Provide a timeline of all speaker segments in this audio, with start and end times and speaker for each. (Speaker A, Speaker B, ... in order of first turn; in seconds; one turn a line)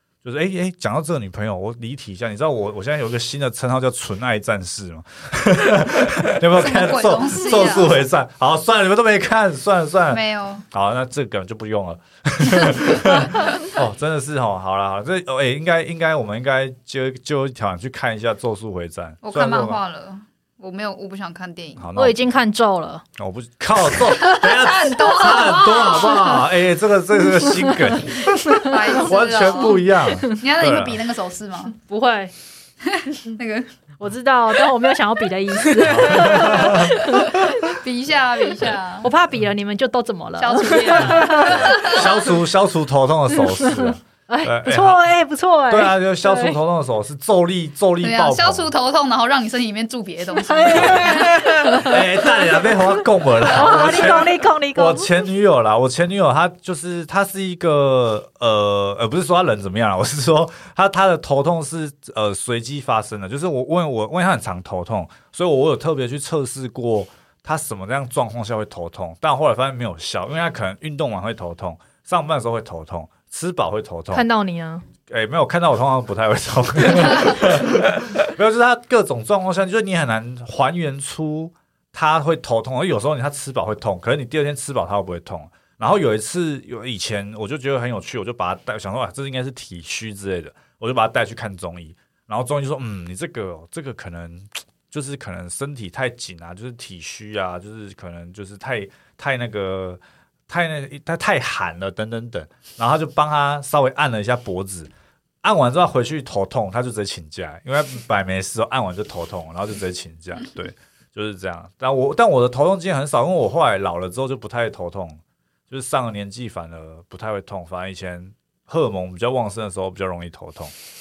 Speaker A: 0.2-19.8
Speaker B: 6.6-8.0
Speaker B: 10.1-10.6
Speaker B: 19.2-21.8
Speaker A: 21.8-22.2
Speaker C: 21.9-23.0
Speaker A: 23.2-31.0
Speaker B: 24.3-26.4
Speaker B: 28.5-31.7
Speaker C: 29.5-29.8
Speaker C: 31.7-32.3
Speaker B: 32.9-33.7
Speaker C: 34.0-37.5
Speaker A: 35.8-37.0
Speaker B: 36.2-39.1
Speaker C: 38.6-42.0
Speaker B: 40.4-42.1
Speaker A: 41.4-45.0
Speaker C: 43.5-46.6
Speaker A: 45.7-48.7
Speaker B: 48.0-52.0
Speaker C: 50.4-52.0
Speaker A: 50.7-74.2
Speaker C: 53.4-55.1
Speaker C: 74.1-74.8
Speaker A: 75.1-104.9
Speaker A: 105.4-120.7